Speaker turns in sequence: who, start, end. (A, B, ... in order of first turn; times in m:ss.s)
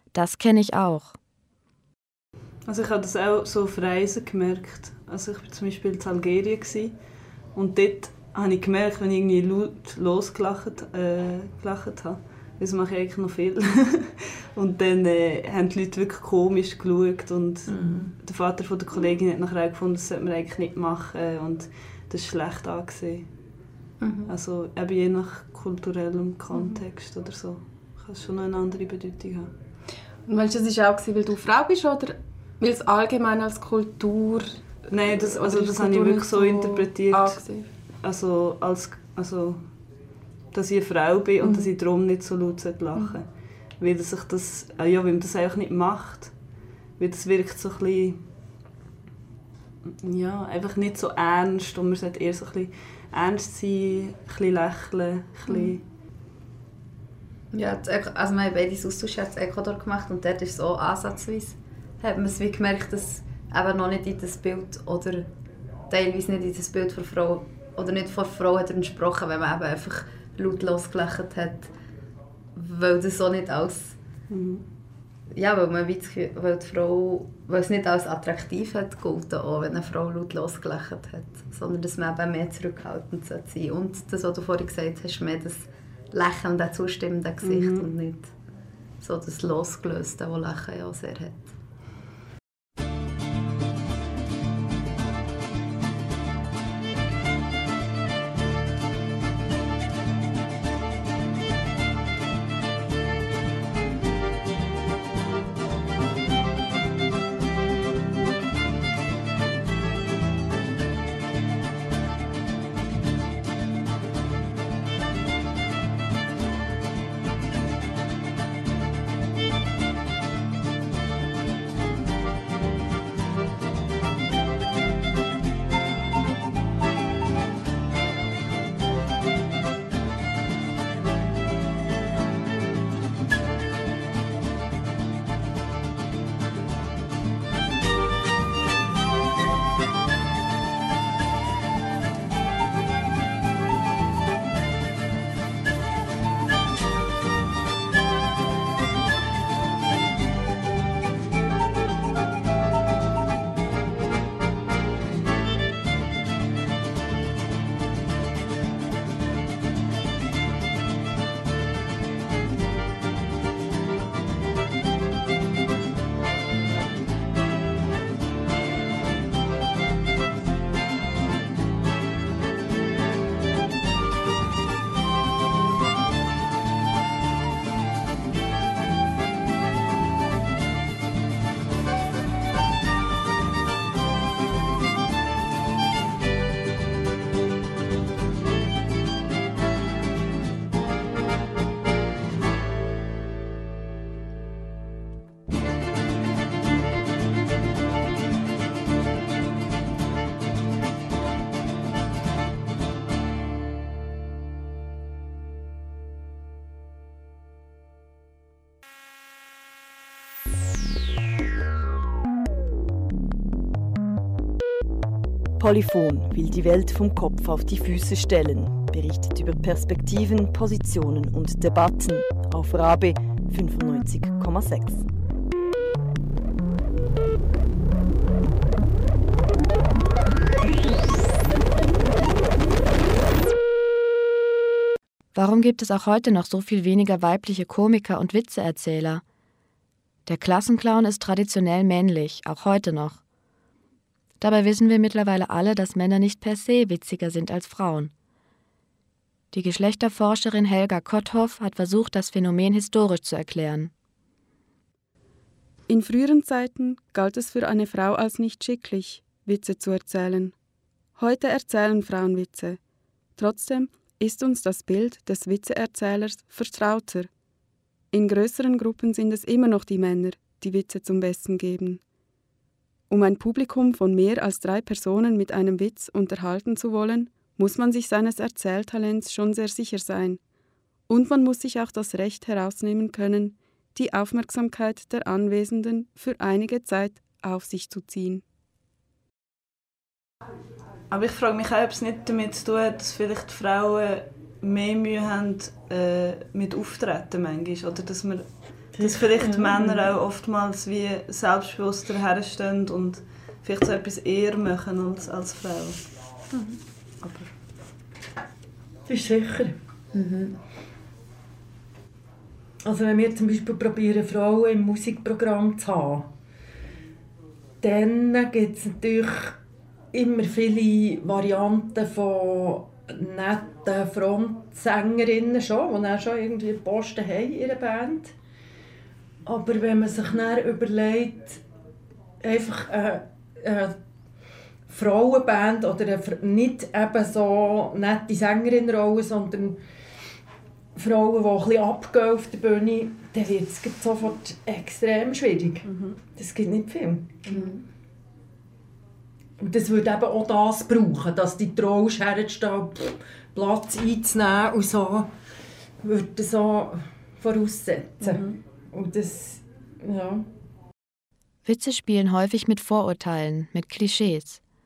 0:00.1-0:01.2 A
0:02.6-0:07.0 B
0:07.5-0:23.3 B
0:24.0-0:24.3 C
0:24.3-0:29.5 B
0:26.5-0:26.8 D
0:30.3-0:37.7 D
0:34.9-0:37.4 B
0:38.0-0:39.7 B
0:40.5-0:43.3 B
0:41.4-0:41.7 D
0:42.9-0:43.2 D
0:43.8-0:46.4 B
0:47.0-0:48.2 B
0:49.9-0:55.8 B
0:57.5-1:05.3 C
1:05.9-1:11.7 C
1:12.6-1:14.0 C
1:14.3-1:14.6 B
1:15.4-1:28.3 C
1:27.4-1:27.9 B
1:29.0-1:31.5 C
3:35.6-3:45.1 E
3:55.3-3:59.2 A
4:00.3-4:03.2 A
4:04.4-4:08.1 A
4:09.5-4:13.9 A
4:15.9-4:20.6 F
4:21.2-4:22.8 F
4:23.4-4:27.3 F
4:28.1-4:32.0 F
4:33.1-4:40.4 F
4:41.1-4:48.4 F
4:51.1-5:06.0 B
4:59.0-5:00.1 G
5:09.1-5:09.8 G
5:10.1-5:10.6 C
5:12.8-5:16.3 G
5:17.8-5:19.6 G
5:20.1-5:28.3 G
5:29.4-5:31.6 G
5:32.4-5:34.0 G
5:34.9-5:39.8 G
5:41.0-5:47.4 G
5:47.5-5:47.8 C
5:49.6-5:55.3 G
5:56.0-6:00.5 G
6:01.6-6:04.6 A